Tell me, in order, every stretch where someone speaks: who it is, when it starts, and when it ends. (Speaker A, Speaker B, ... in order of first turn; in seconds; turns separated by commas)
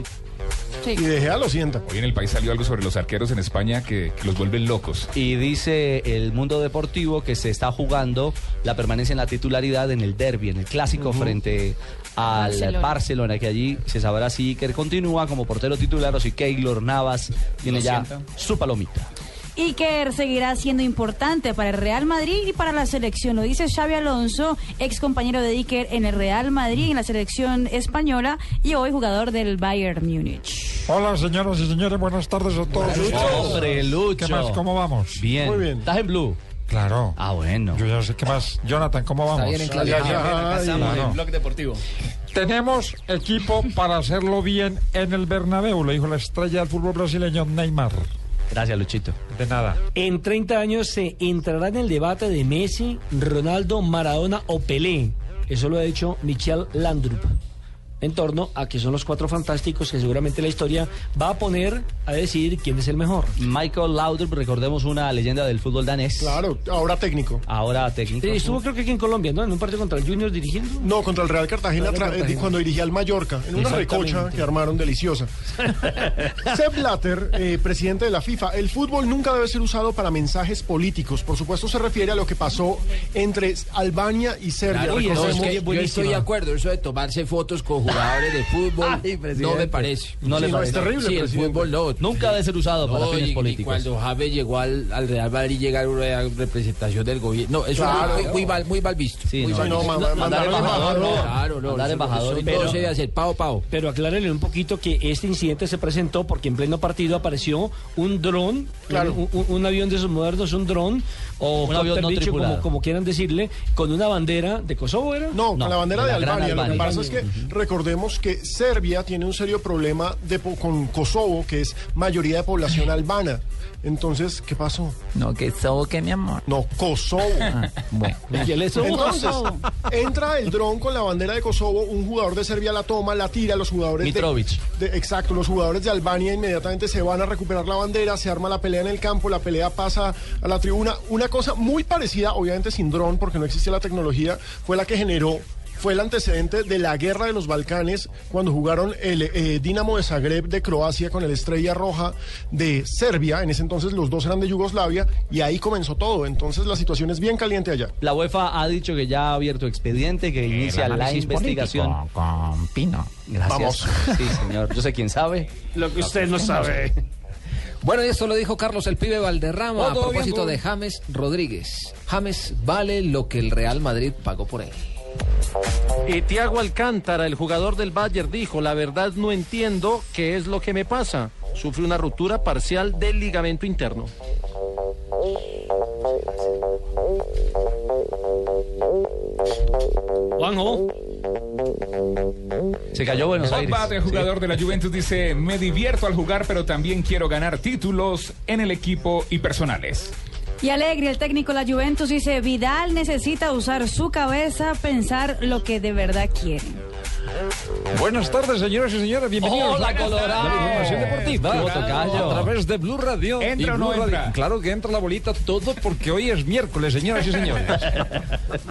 Speaker A: 0.9-1.8, Speaker B: 1.9-5.1, Speaker C: 5.1-19.1, Speaker D: 12.3-12.9, Speaker B: 17.8-18.0, Speaker D: 19.6-30.9, Speaker E: 30.9-35.2, Speaker A: 32.8-33.6, Speaker C: 32.9-36.4, Speaker F: 33.3-33.5, Speaker A: 35.4-35.9, Speaker E: 36.7-37.2, Speaker C: 37.1-37.8, Speaker E: 37.7-40.1, Speaker A: 39.7-41.0, Speaker G: 39.7-40.4, Speaker H: 40.3-40.6, Speaker E: 40.8-41.2, Speaker E: 42.3-48.1, Speaker C: 48.5-49.1, Speaker E: 49.3-49.8, Speaker F: 49.9-57.3, Speaker F: 58.0-63.4, Speaker C: 63.4-66.4, Speaker A: 66.2-67.4, Speaker C: 67.5-68.6, Speaker F: 68.2-70.9, Speaker A: 70.8-75.7, Speaker F: 71.8-72.5, Speaker F: 73.6-74.4, Speaker F: 75.8-76.3, Speaker A: 76.4-85.7, Speaker G: 84.7-103.6, Speaker F: 84.9-86.3, Speaker A: 89.4-91.7, Speaker C: 90.2-91.0, Speaker C: 92.0-93.9, Speaker A: 97.7-98.4, Speaker C: 98.0-98.4, Speaker C: 99.3-102.9, Speaker A: 99.5-101.4, Speaker F: 102.4-102.8, Speaker F: 103.7-115.4, Speaker A: 108.9-109.2, Speaker C: 111.6-112.6, Speaker A: 115.3-125.0, Speaker C: 115.5-117.5, Speaker F: 116.2-117.2, Speaker H: 125.2-126.4, Speaker A: 126.5-128.2, Speaker F: 128.3-129.3, Speaker A: 128.8-157.9, Speaker D: 128.9-129.6, Speaker C: 134.0-134.6, Speaker C: 158.0-162.0, Speaker B: 160.5-160.9, Speaker H: 160.9-162.5, Speaker E: 162.5-163.1, Speaker C: 163.3-165.5, Speaker A: 163.5-164.3, Speaker F: 165.7-166.9, Speaker G: 167.8-174.8, Speaker E: 169.8-170.6, Speaker I: 172.1-172.5, Speaker I: 176.1-184.1, Speaker F: 190.4-190.9, Speaker C: 192.9-194.3, Speaker B: 193.4-200.1, Speaker D: 200.6-206.8, Speaker E: 207.9-218.2, Speaker C: 209.4-212.5, Speaker B: 210.0-212.3, Speaker B: 213.4-214.3